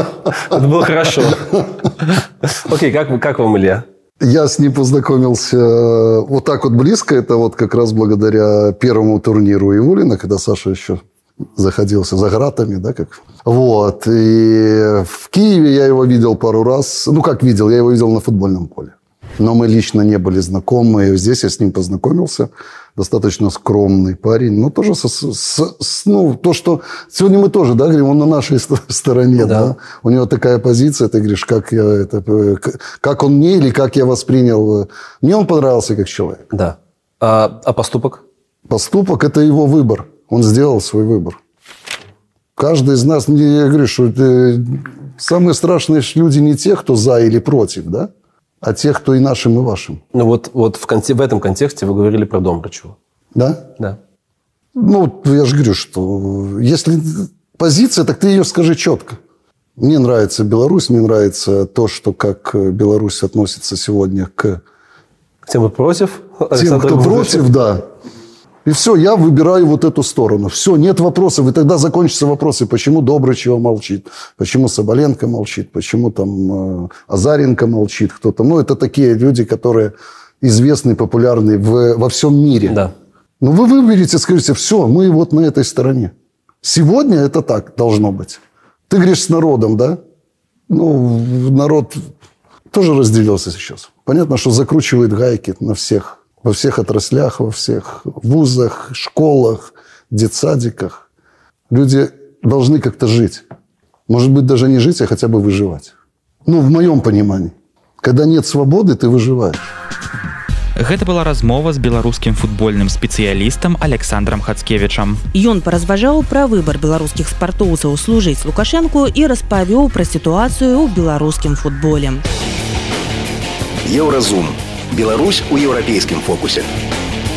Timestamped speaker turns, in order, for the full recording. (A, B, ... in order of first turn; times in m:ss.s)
0:00.4-0:03.8 A
0:04.2-0:11.0 B
0:11.5-0:36.5 B
0:29.4-0:29.7 A
0:36.5-0:38.2 A
0:38.7-0:41.4 B
0:42.6-0:48.1 B
0:48.6-0:50.0 B
0:50.1-0:53.0 A
0:53.3-0:53.7 B
0:54.8-0:59.2 B
0:59.8-1:04.6 B
1:05.4-1:07.5 A
1:06.5-1:07.9 B
1:08.6-1:22.8 B
1:22.7-1:22.9 A
1:23.4-1:30.0 B
1:30.7-1:32.1 B
1:32.7-1:41.0 B
1:41.7-1:43.4 B
1:44.1-1:45.9 B
1:46.4-1:49.7 B
1:50.8-1:55.2 C
1:55.3-2:02.2 D
2:03.8-2:06.7 E